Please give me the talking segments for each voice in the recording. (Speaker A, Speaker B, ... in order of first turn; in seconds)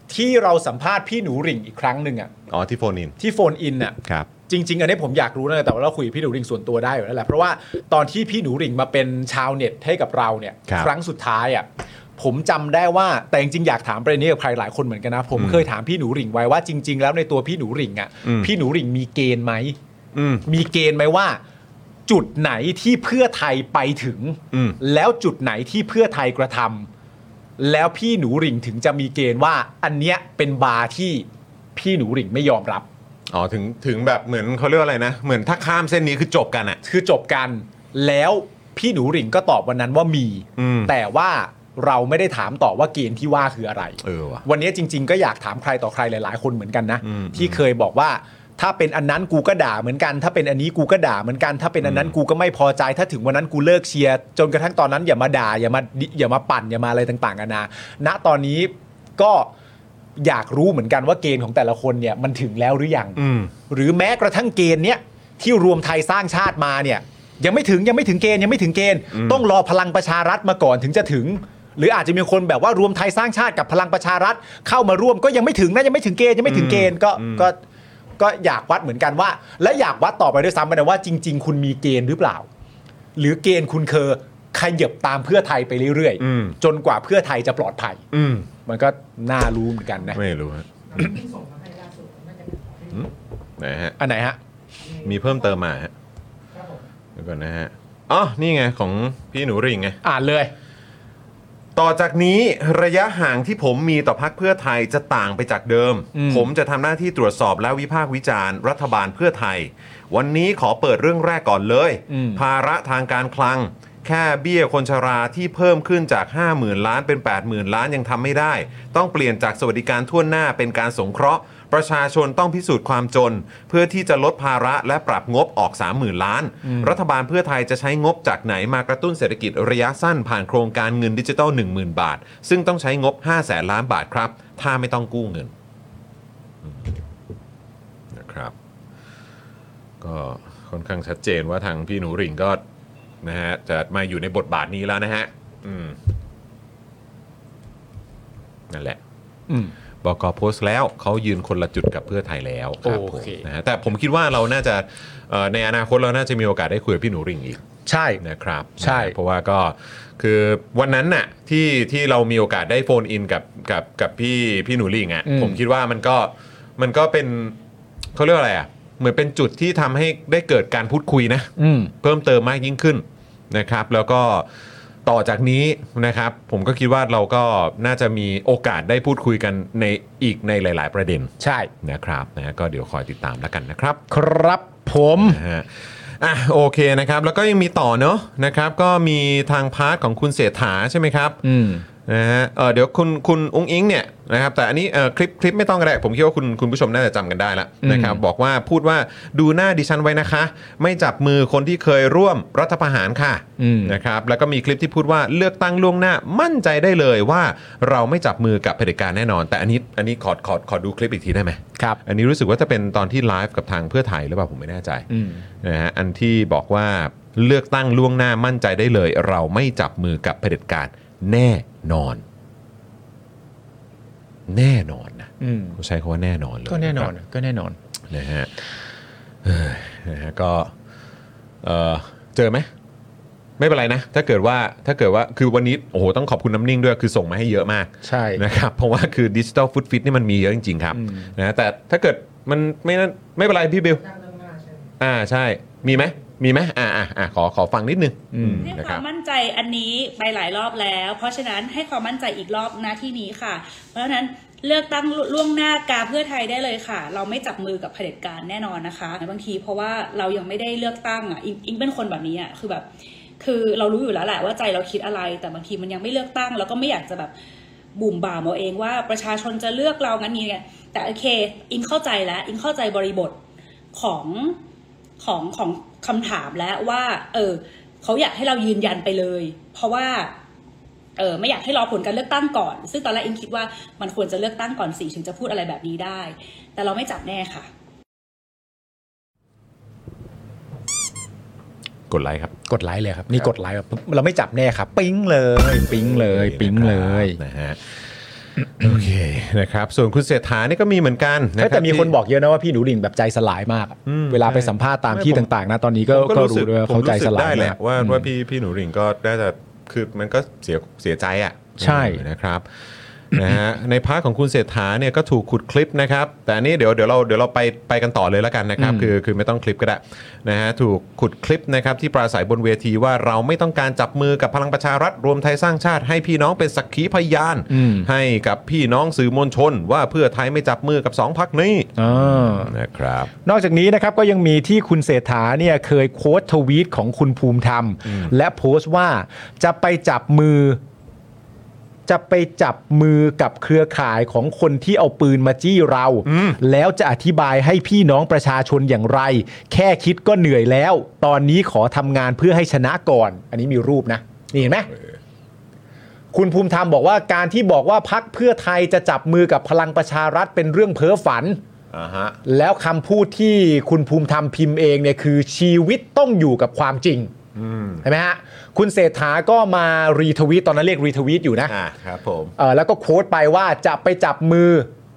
Speaker A: 0.1-2.3, 3.2-4.0, 4.5-19.8, 20.4-21.4, 22.1-26.9, 27.6-32.9, 36.8-59.5, 60.2-77.6, 78.2-82.5, 83.2-88.0, 88.7-90.2, 94.0-94.4, 100.0-100.5, 106.1-106.5, 112.1-112.4, 126.6-127.0, 152.8-153.4, 157.8-158.2, 158.8-159.1, 165.3-165.6, 171.6-171.9, 181.4-181.7, 184.1-185.4, 191.4-191.8, 197.8-198.2, 203.6-203.9, 215.1-215.4, 225.4-225.8, 226.7-227.8, 238.0-238.4, 240.9-241.3, 248.3-248.7, 292.7-297.4, 301.6-308.3, 311.8-312.2, 318.8-319.1, 327.7-328.1, 332.0-332.7, 333.4-340.8, 342.1-354.9, 356.3-361.6, 362.4-367.3, 368.0-371.7, 372.6-374.9
Speaker B: 2.5-3.2, 4.0-4.3, 15.3-15.6, 18.2-18.5, 20.1-20.4, 24.5-24.8, 33.3-36.8, 40.6-40.9, 44.0-44.4, 47.0-47.6, 51.8-52.1, 63.2-63.5, 69.1-69.4, 76.4-77.5, 86.2-86.6, 88.1-88.5, 90.1-91.1, 92.9-94.0, 95.0-95.9, 97.2-100.0, 101.7-135.5, 136.6-137.0, 138.1-138.5, 140.0-142.6, 143.2-146.0, 148.7-149.0, 150.0-157.6, 158.2-167.6, 168.1-171.5, 172.0-174.4, 175.0-181.3, 181.8-184.0, 185.2-185.7, 186.2-191.4, 192.1-215.1, 215.6-222.2, 224.5-227.1, 228.1-228.5, 229.4-230.7, 231.6-232.7, 233.6-244.2, 245.0-249.0, 292.1-292.5, 295.9-298.0, 298.8-302.1, 304.1-305.5, 306.1-312.6, 313.3-333.3, 346.2-346.6, 354.9-355.1, 361.9-362.4, 367.5-368.0, 371.7-372.5
Speaker C: 248.6-262.9, 263.4-267.3, 267.9-273.4, 273.9-274.6, 275.2-280.3, 281.2-287.7